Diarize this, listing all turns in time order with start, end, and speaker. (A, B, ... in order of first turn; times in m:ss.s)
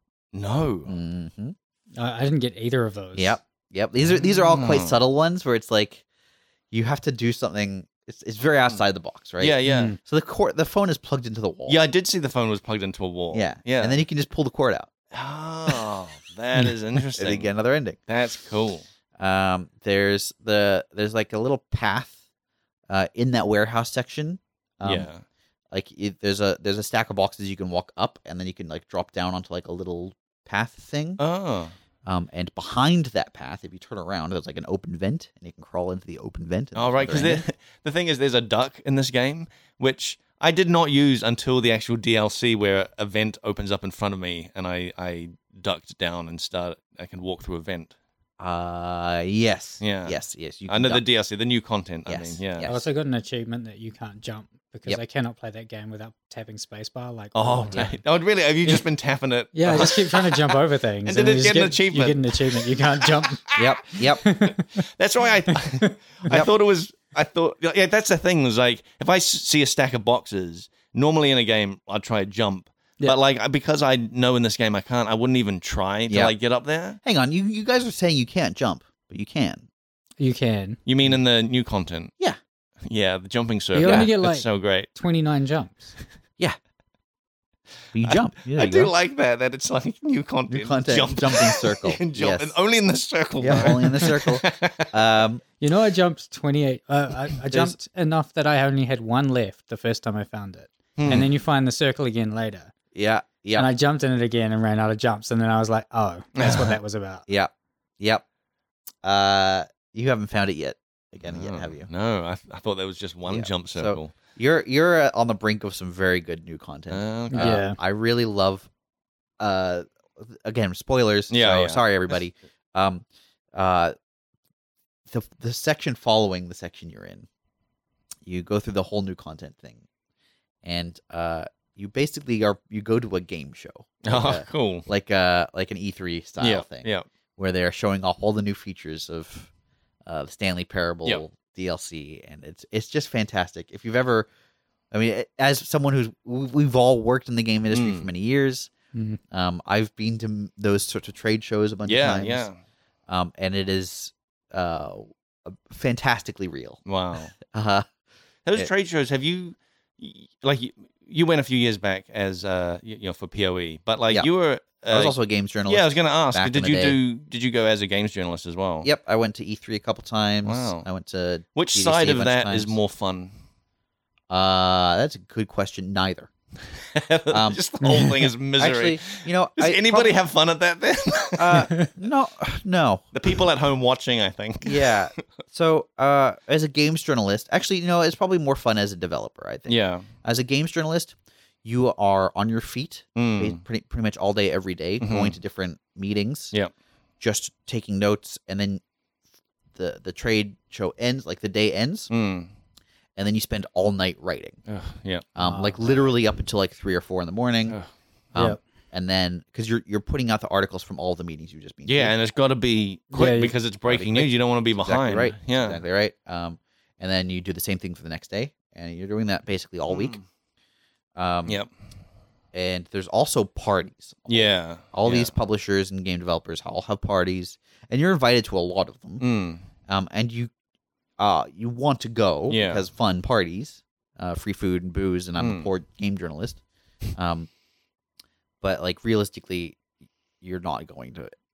0:00.3-0:01.0 A
0:00.9-0:01.6 B
0:02.0-0:03.4 C
0:03.2-0:06.0 B
0:04.2-0:05.0 A
0:06.7-0:11.8 B
0:09.4-0:10.0 A
0:09.7-0:10.0 C
0:11.7-0:14.0 A
0:13.3-0:14.9 B
0:15.1-0:17.5 A
0:17.2-0:18.0 B
0:18.1-0:18.9 A
0:19.2-0:22.2 B
0:22.9-0:25.1 B
0:24.8-0:25.2 A
0:25.7-0:31.2 B
0:31.2-0:31.8 A
0:32.0-0:37.4 B
0:36.8-0:47.9 A
0:48.4-0:51.0 B
0:49.8-0:52.7 A
0:52.1-0:52.9 B
0:52.7-0:57.9 C
0:57.4-1:03.7 A
0:59.5-1:03.4 C
1:03.6-1:04.3 B
1:04.1-1:04.9 C
1:04.3-1:17.0 A
1:05.5-1:05.9 C
1:16.1-1:16.3 B
1:17.0-1:19.7 B
1:20.2-1:20.8 C
1:20.9-1:22.1 A
1:22.9-1:24.9 A
1:23.7-1:25.9 C
1:23.8-1:24.1 B
1:27.9-1:28.9 B
1:28.0-1:34.9 A
1:30.5-1:32.6 B
1:33.4-1:35.4 B
1:35.6-1:42.7 C
1:37.5-1:37.8 B
1:41.0-1:41.3 A
1:42.9-1:43.7 B
1:43.6-1:47.2 C
1:46.4-1:46.8 A
1:47.3-1:48.2 B
1:49.0-1:51.9 B
1:51.3-1:54.1 A
1:53.3-1:58.7 B
1:56.9-1:57.6 A
1:57.3-1:57.8 C
1:59.4-2:03.9 B
2:01.3-2:01.9 A
2:05.1-2:07.3 B
2:08.3-2:09.8 B
2:10.6-2:19.5 B
2:14.1-2:14.9 A
2:16.4-2:17.0 A
2:20.1-2:24.3 B
2:24.9-2:28.7 B
2:27.7-2:28.1 A
2:28.9-2:29.2 C
2:29.3-2:32.5 B
2:31.9-2:32.6 A
2:33.1-2:36.8 B
2:36.9-2:37.4 A
2:37.4-2:37.9 B
2:38.5-2:45.2 A
2:44.9-2:47.0 B
2:45.7-2:48.9 A
2:48.8-2:52.8 B
2:50.4-2:50.9 A
2:51.6-2:53.3 A
2:54.3-2:56.3 B
2:56.9-3:01.7 A
2:57.3-2:57.6 B
2:57.8-2:58.3 C
2:58.6-3:00.2 B
3:01.4-3:03.1 B
3:01.6-3:01.9 C
3:03.1-3:05.2 A
3:04.6-3:16.5 B
3:09.7-3:10.1 A
3:13.2-3:13.6 A
3:15.0-3:15.4 A
3:17.2-3:18.8 B
3:19.8-3:22.1 B
3:22.1-3:22.5 A
3:23.2-3:24.6 B
3:24.7-3:25.3 A
3:25.4-3:27.8 B
3:25.4-3:26.0 C
3:28.3-3:32.2 B
3:31.9-3:35.8 A
3:33.1-3:33.6 C
3:33.9-3:40.2 B
3:39.9-3:40.2 A
3:41.2-3:41.6 B
3:42.5-3:49.2 B
3:44.3-3:45.3 A
3:49.2-3:49.6 A
3:49.9-3:50.5 B
3:51.2-3:56.6 B
3:52.5-3:52.8 A
3:55.4-3:55.7 A
3:57.2-3:57.5 B
3:58.6-3:59.8 B
4:00.4-4:01.4 B